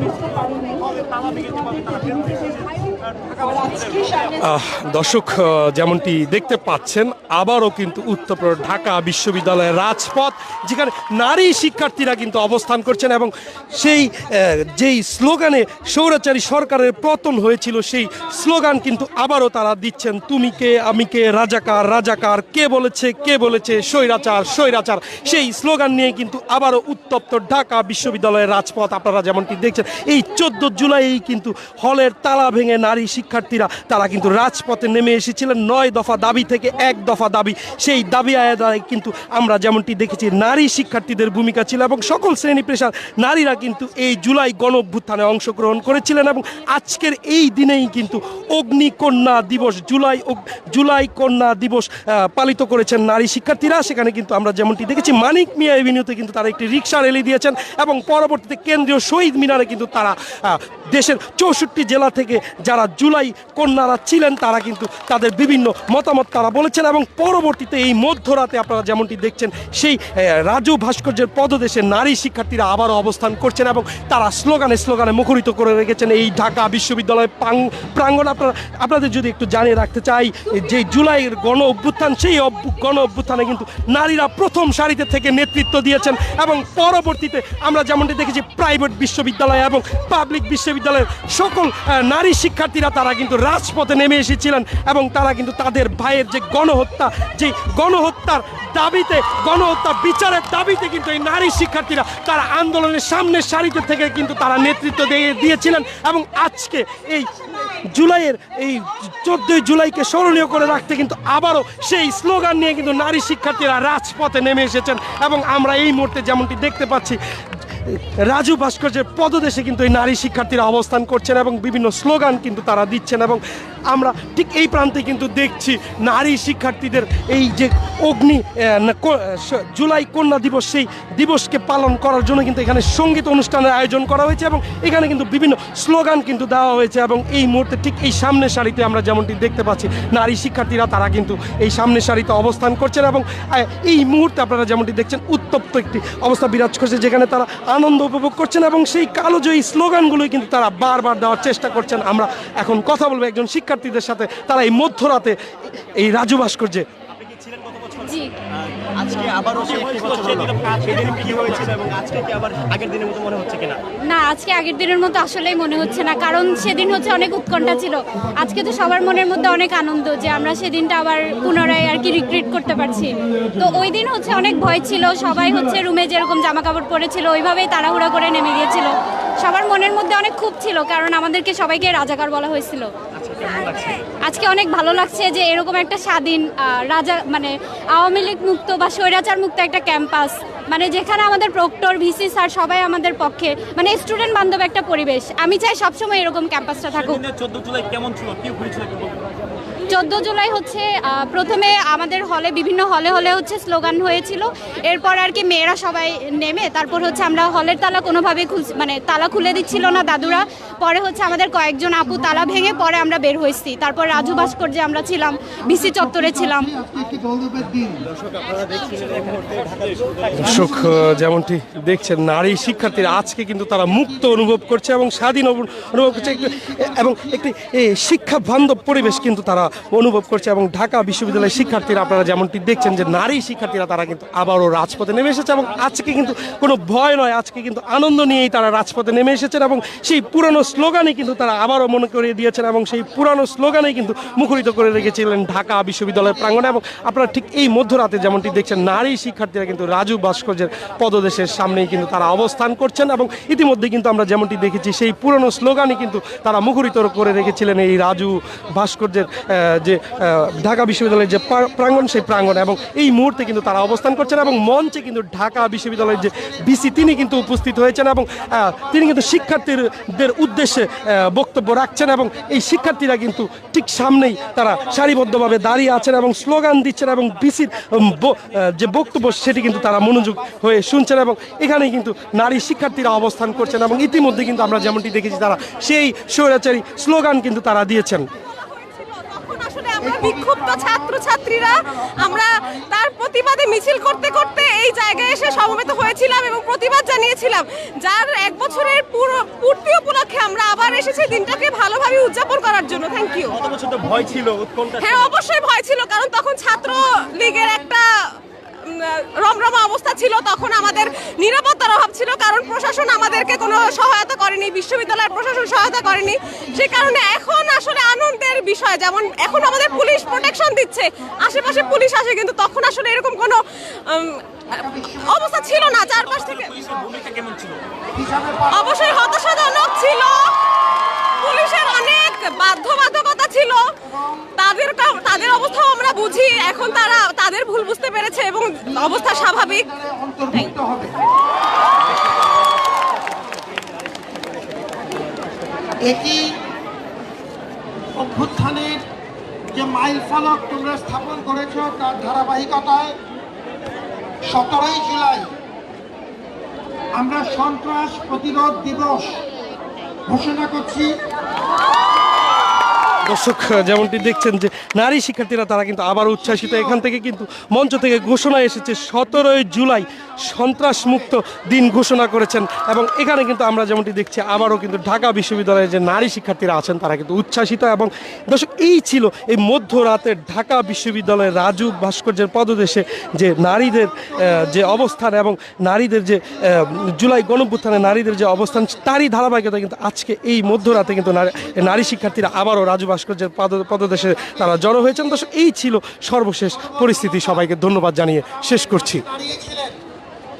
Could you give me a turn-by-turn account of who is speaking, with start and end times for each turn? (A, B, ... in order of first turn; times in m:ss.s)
0:04.4-1:47.3 A
1:47.9-1:57.2 A
1:57.8-2:35.4 A
2:36.0-2:36.8 A
2:37.9-2:38.3 B
2:39.0-2:43.8 C
2:44.1-3:02.9 B
3:04.2-3:17.2 B
3:17.3-3:19.1 C
3:19.9-3:36.8 B
3:36.8-3:38.0 D
3:38.9-3:39.2 C
3:40.4-4:48.3 A
4:49.0-5:03.7 E
5:03.7-5:04.8 C
5:04.8-5:27.2 E
5:27.2-5:27.8 C
5:28.1-5:28.6 D
5:28.6-5:30.5 E
5:31.4-5:33.9 E
5:34.6-5:40.8 E
5:40.0-5:41.1 D
5:46.0-5:46.5 D
5:48.2-5:49.0 D
5:49.7-5:53.2 D
5:54.4-5:55.5 D
5:57.2-5:59.4 D
6:00.3-6:01.2 D
6:03.2-6:39.3 A
6:39.6-6:39.9 D